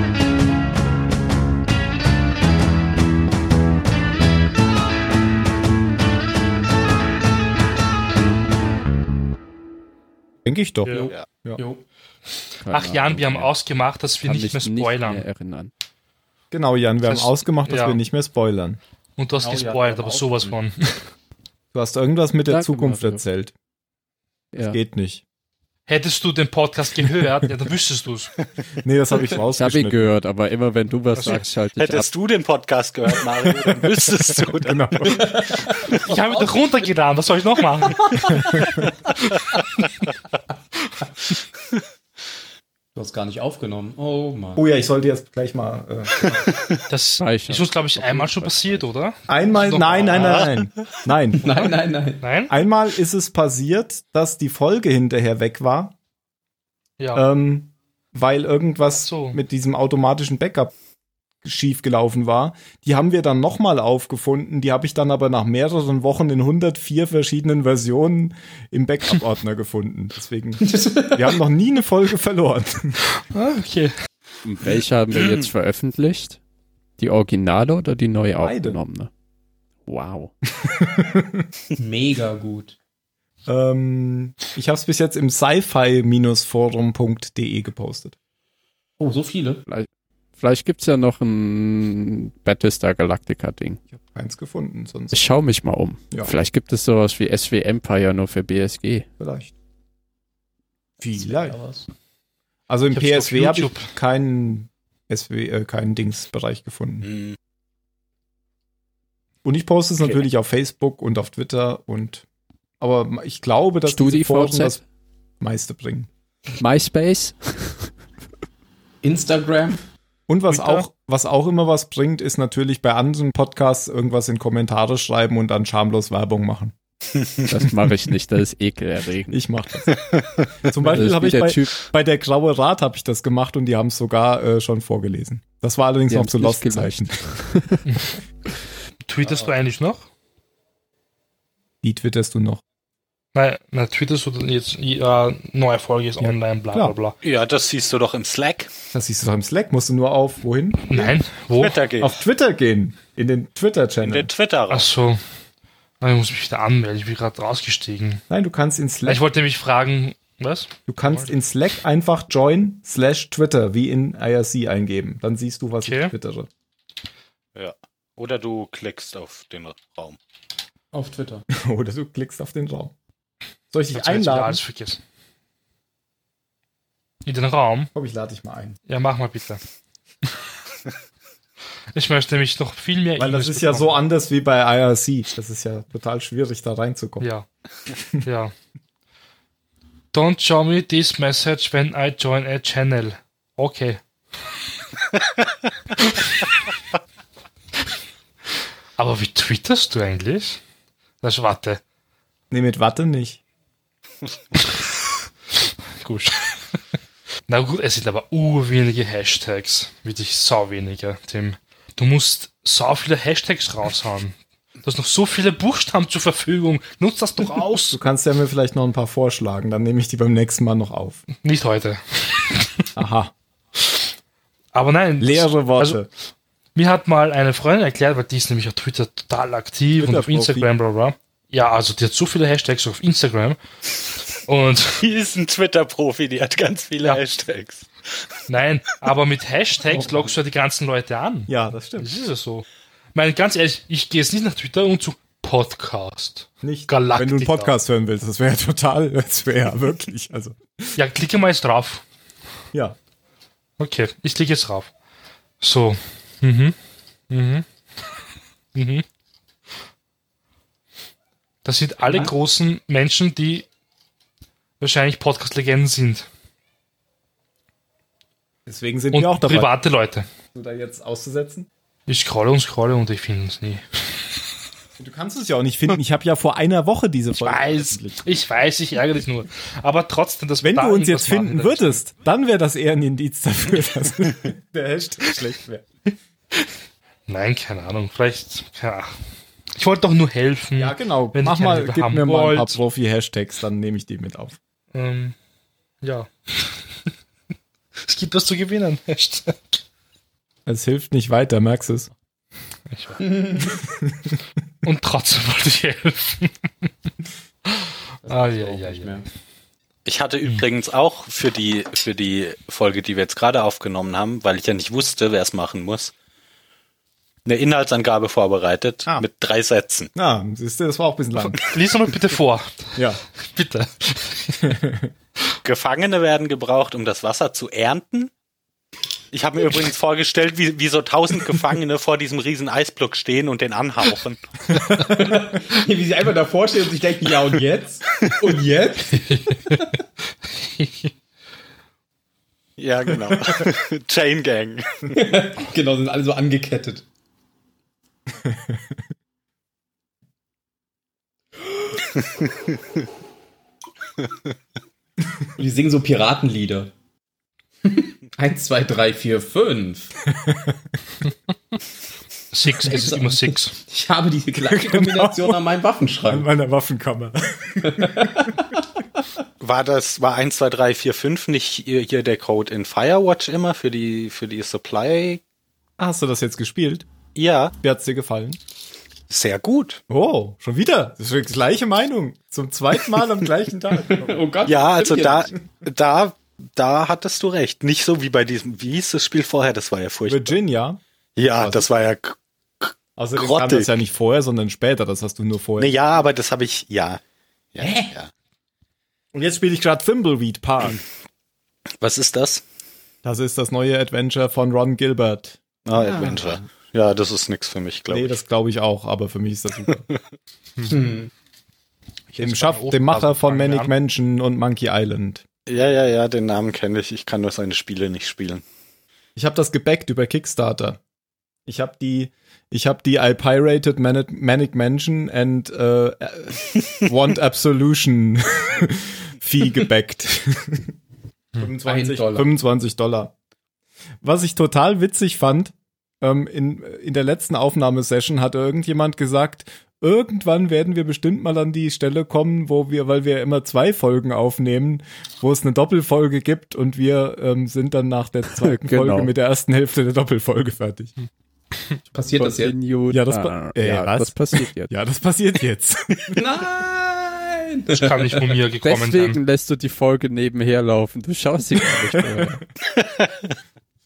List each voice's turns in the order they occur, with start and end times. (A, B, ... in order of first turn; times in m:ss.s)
0:10.4-0:11.6 A
0:10.8-0:11.1 B
0:10.9-0:11.8 C
0:12.6-0:13.5 D
0:12.7-0:15.2 B
0:14.2-0:15.7 D
0:16.5-0:18.8 A
0:17.1-0:18.0 B
0:19.2-0:21.1 B
0:19.4-0:20.5 C
0:21.7-0:23.5 A
0:22.5-0:23.2 D
0:24.5-0:24.8 D
0:24.6-0:25.2 A
0:25.9-0:28.3 B
0:28.8-0:30.1 A
0:29.5-0:32.1 D
0:31.1-0:31.5 B
0:31.8-0:35.3 E
0:34.5-0:35.4 A
0:35.1-0:36.5 C
0:35.9-0:38.7 B
0:37.9-0:38.5 C
0:42.9-0:44.6 C
0:44.6-0:46.2 A
0:46.2-0:46.8 E
0:46.9-0:50.4 B
0:47.2-0:48.9 D
0:49.3-0:51.4 A
0:50.1-0:50.5 E
0:51.4-0:52.2 C
0:51.5-0:52.5 B
0:52.5-0:56.0 A
0:57.1-1:00.7 A
0:58.9-0:59.4 B
1:01.4-1:13.0 A
1:10.6-1:11.4 C
1:13.2-1:13.9 B
1:14.4-1:16.4 D
1:17.0-1:19.1 D
1:18.4-1:18.8 A
1:19.8-1:20.3 D
1:20.6-1:21.5 A
1:21.8-1:22.8 C
1:23.4-1:28.1 A
1:29.0-1:29.6 C
1:29.6-1:33.8 D
1:33.9-1:35.2 A
1:35.1-1:39.0 D
1:39.2-1:39.5 A
1:41.0-1:41.6 A
1:41.2-1:41.9 C
1:42.7-1:47.1 A
1:42.9-1:43.9 B
1:47.0-1:47.4 E
1:49.4-1:52.2 A
1:52.8-1:54.8 A
1:53.8-1:54.8 D
1:55.4-1:56.1 A
1:56.6-1:57.9 D
1:59.0-1:59.8 C
2:00.3-2:06.7 A
2:00.5-2:00.9 B
2:07.4-2:09.4 D
2:09.3-2:10.0 A
2:10.6-2:17.2 A
2:10.8-2:11.7 D
2:16.1-2:17.8 D
2:17.9-2:18.2 B
2:19.0-2:20.1 B
2:21.8-2:22.6 A
2:23.3-2:27.2 B
2:26.2-2:26.9 A
2:27.2-2:28.7 E
2:28.9-2:31.2 A
2:30.9-2:31.8 B
2:31.5-2:32.2 E
2:32.0-2:34.3 A
2:34.0-2:34.9 E
2:34.7-2:35.2 B
2:36.0-2:38.2 B
2:38.3-2:39.2 A
2:39.0-2:41.3 B
2:40.9-2:46.5 A
2:45.8-2:46.1 B
2:47.5-2:50.2 E
2:50.9-2:51.4 C
2:51.5-2:52.9 A
2:53.7-2:54.6 A
2:53.9-2:55.0 B
2:57.2-2:57.9 B
2:57.9-2:58.8 A
2:58.9-2:59.6 B
3:01.9-3:03.9 B
3:03.2-3:07.2 A
3:07.2-3:07.4 B
3:07.9-3:08.2 A
3:08.2-3:08.5 B
3:10.1-3:14.0 B
3:16.0-3:16.6 B
3:19.0-3:20.6 B
3:21.2-3:21.8 B
3:22.5-3:23.4 A
3:26.0-3:26.6 B
3:27.5-3:38.0 B
3:37.9-3:41.2 A
3:41.4-3:42.9 B
3:43.0-3:43.3 A
3:43.8-3:44.0 B
3:44.7-3:46.0 B
3:45.2-3:46.1 A
3:46.7-3:53.6 B
3:50.0-3:50.7 A
3:54.5-3:55.0 B
3:55.0-3:58.4 E
3:58.5-4:07.7 B
3:59.9-4:00.3 A
4:01.5-4:02.1 A
4:06.6-4:10.9 A
4:11.0-4:12.0 B
4:13.8-4:14.9 B
4:15.6-4:16.7 B
4:17.3-4:17.6 B
4:18.7-4:19.0 B
4:21.6-4:23.7 B
4:24.8-4:26.3 B
4:28.6-4:29.7 A
4:29.1-4:30.2 B
4:30.5-4:31.7 A
4:32.1-4:34.5 B
4:35.0-4:38.2 A
4:37.3-4:42.0 B
4:40.6-4:45.8 A
4:47.3-4:49.2 B
4:49.7-4:52.8 B
4:50.8-4:54.6 A
4:54.9-4:55.4 B
4:56.0-4:56.8 B
4:58.0-4:59.8 B
5:00.6-5:02.1 A
5:02.9-5:03.2 B
5:03.2-5:03.8 C
5:04.0-5:04.3 A
5:04.8-5:06.9 B
5:07.6-5:09.2 B
5:08.2-5:09.2 C
5:10.0-5:16.1 E
5:17.4-5:20.1 E
5:20.1-5:21.6 A
5:21.4-5:24.7 B
5:23.0-5:23.2 A
5:24.6-5:25.1 A
5:25.6-5:28.3 E
5:29.3-5:34.4 E
5:35.0-5:39.9 C
5:39.3-5:39.8 B
5:40.6-5:41.1 B
5:42.8-5:45.2 E
5:45.1-5:47.0 C
5:48.4-5:49.0 A
5:51.6-5:51.9 C
5:55.6-5:56.9 C
5:57.8-6:00.1 C
6:00.3-6:00.8 A
6:02.5-6:03.8 B
6:02.8-6:06.5 C
6:04.7-6:05.6 A
6:06.3-6:08.5 A
6:07.8-6:08.8 C
6:09.6-6:15.4 E
6:16.0-6:17.0 A
6:17.3-6:17.7 E
6:17.8-6:18.6 A
6:19.3-6:20.0 E
6:20.1-6:24.4 A
6:24.0-6:25.5 C
6:24.6-6:30.6 E
6:30.2-6:31.0 A
6:31.4-6:33.9 E
6:31.5-6:31.9 A
6:33.2-6:36.0 A
6:35.8-6:37.2 E
6:37.7-6:38.3 E
6:37.8-6:38.1 C
6:39.3-6:41.0 A
6:42.0-6:42.6 E
6:43.2-6:45.6 A
6:45.8-6:48.4 E
6:45.9-6:46.6 C
6:48.1-6:50.1 A
6:50.9-6:51.3 C
6:52.3-6:53.9 B
6:52.4-6:55.4 A
6:55.7-6:58.6 E
6:59.4-7:01.0 A
7:01.7-7:10.9 A
7:11.6-7:13.3 A
7:11.8-7:12.5 C
7:14.2-7:31.1 A
7:28.6-7:29.3 D
7:32.1-7:32.7 C
7:32.4-7:34.9 D
7:33.1-7:36.4 A
7:36.3-7:38.5 C
7:37.9-7:39.4 B
7:38.8-7:42.6 D
7:42.1-7:42.6 A